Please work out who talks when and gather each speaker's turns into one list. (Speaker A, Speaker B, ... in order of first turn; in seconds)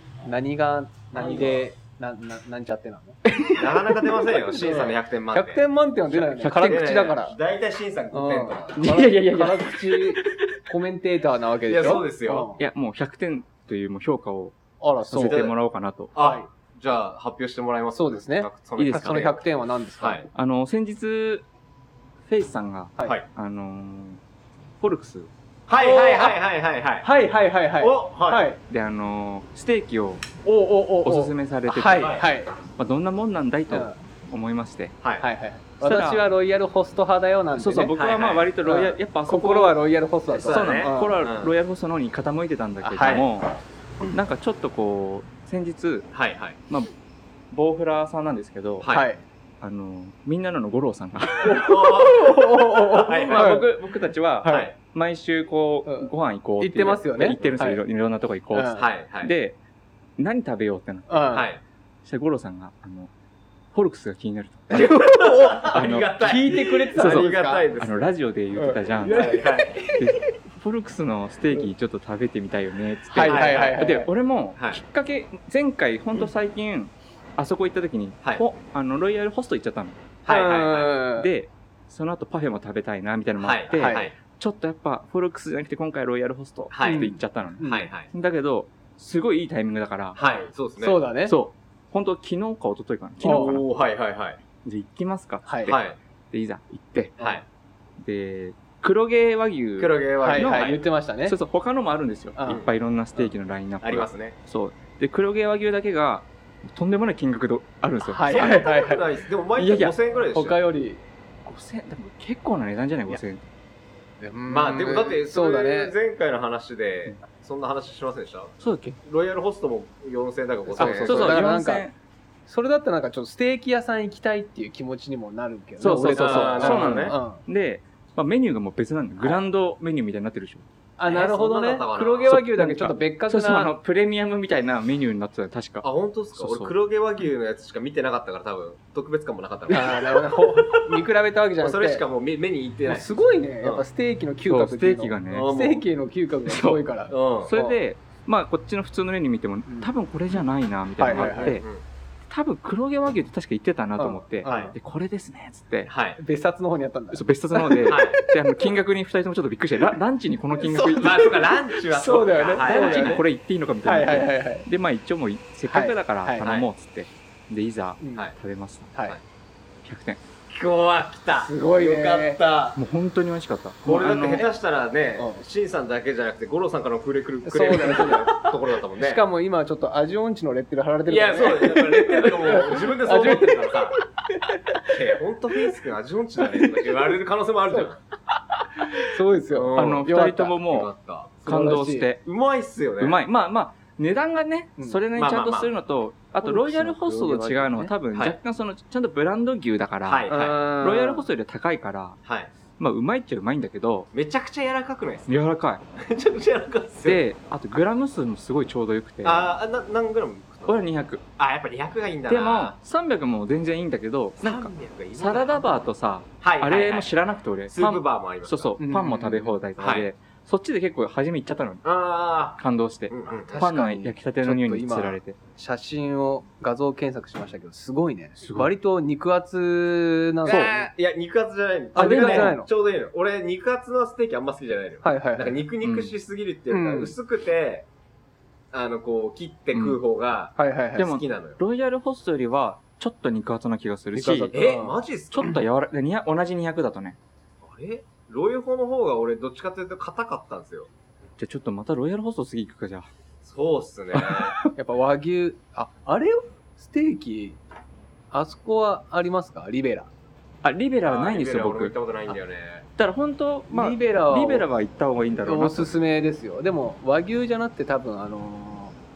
Speaker A: 0.2-3.2, 4.2-7.3, 8.1-12.6, 14.8-15.4, 16.2-16.4, 17.9-20.2, 25.8-26.4, 27.0-28.6, 30.4-32.5, 33.7-34.0, 35.2-41.2, 42.8-43.2, 48.9-49.2, 51.4-53.6, 55.8-57.8, 58.5-58.9, 61.1-61.5, 64.7-67.7, 68.5-70.2, 73.1-74.1, 80.3-81.3, 83.7-84.1, 86.8-87.9, 90.8-91.3, 93.2-93.6, 95.5-95.8, 97.2-97.4, 100.2-101.3, 102.3-102.6, 108.0-109.0, 110.3-111.0, 114.2-115.9, 120.7-121.9, 122.5-127.4, 131.0-133.7, 139.7-142.0, 142.8-147.8, 151.0-151.6, 154.0-154.7, 156.2-158.3, 160.5-163.2, 163.8-164.7, 165.7-166.5, 168.0-168.3, 171.4-172.4, 177.4-185.0, 186.4-186.8, 188.8-190.5, 191.4-192.1, 194.8-195.0, 196.4-197.9, 200.3-201.2, 218.8-219.5, 223.5-230.7, 231.9-232.7, 235.0-235.6, 236.7-237.1, 240.6-241.1, 244.1-245.6, 254.8-257.6, 258.3-260.1, 263.7-264.7, 265.4-269.0
Speaker B: 1.1-1.6, 3.5-5.6, 6.6-8.9, 11.7-12.5, 15.2-15.5, 16.1-19.4, 20.0-20.2, 25.7-27.1, 27.8-28.4, 32.0-32.2, 38.0-38.4, 40.3-41.5, 43.0-43.3, 46.1-46.6, 48.8-49.2, 51.5-53.6, 54.5-54.7, 57.3-57.6, 58.8-59.3, 61.3-61.6, 65.1-68.1, 69.1-69.8, 73.2-73.8, 80.2-81.0, 83.4-84.2, 86.7-87.1, 87.6-88.1, 90.1-91.0, 93.2-94.4, 95.7-96.0, 97.2-97.4, 99.8-100.8, 103.8-104.4, 108.3-110.6, 114.5-121.5, 126.1-127.2, 131.1-132.3, 135.8-141.0, 141.6-143.1, 145.3-145.8, 147.1-147.5, 151.1-151.8, 154.4-154.7, 155.8-156.2, 157.9-158.2, 160.9-163.2, 166.4-166.7, 170.5-172.8, 173.8-179.2, 181.1-184.0, 184.9-188.0, 189.5-190.0, 190.7-191.4, 192.2-193.2, 195.2-195.7, 200.0-200.7, 202.2-202.5, 204.1-205.4, 205.9-207.2, 209.2-210.8, 211.4-212.8, 214.4-215.8, 216.4-217.1, 217.7-218.8, 219.8-220.1, 221.8-223.6, 230.4-237.9, 238.7-241.6, 244.5-245.5, 247.6-250.9, 253.4-254.6, 261.0-262.9
Speaker C: 3.3-3.6, 6.1-7.1, 8.8-10.3, 12.6-14.6, 15.1-16.1, 18.8-19.3, 20.3-21.4, 22.3-24.2, 24.8-25.3, 28.7-30.2, 31.0-32.2, 32.8-35.0, 35.8-36.2, 37.5-39.8, 40.4-43.5, 44.1-46.1, 47.5-48.9, 49.6-51.9, 52.9-59.6, 60.2-61.4, 62.0-63.1, 63.7-65.1, 65.6-69.4, 69.9-80.1, 81.2-90.2, 91.2-93.7, 94.6-97.1, 98.0-108.7, 109.6-109.9, 111.4-113.4, 118.6-119.0, 120.8-121.9, 125.8-130.6, 132.3-136.7, 144.4-145.5, 146.5-146.8, 147.4-151.7, 152.3-155.9, 157.1-161.3, 162.6-168.9, 169.8-170.2, 172.8-174.4, 189.7-192.2, 193.0-202.2, 202.8-204.1, 205.3-205.8, 207.0-209.5, 210.7-211.2, 212.3-221.8, 222.6-225.4, 228.4-228.7, 230.5-230.9, 232.0-232.6, 235.8-236.1, 239.7-240.0, 241.0-244.5, 245.3-247.2, 251.4-253.1, 254.1-254.7, 260.6-261.9, 263.0-266.0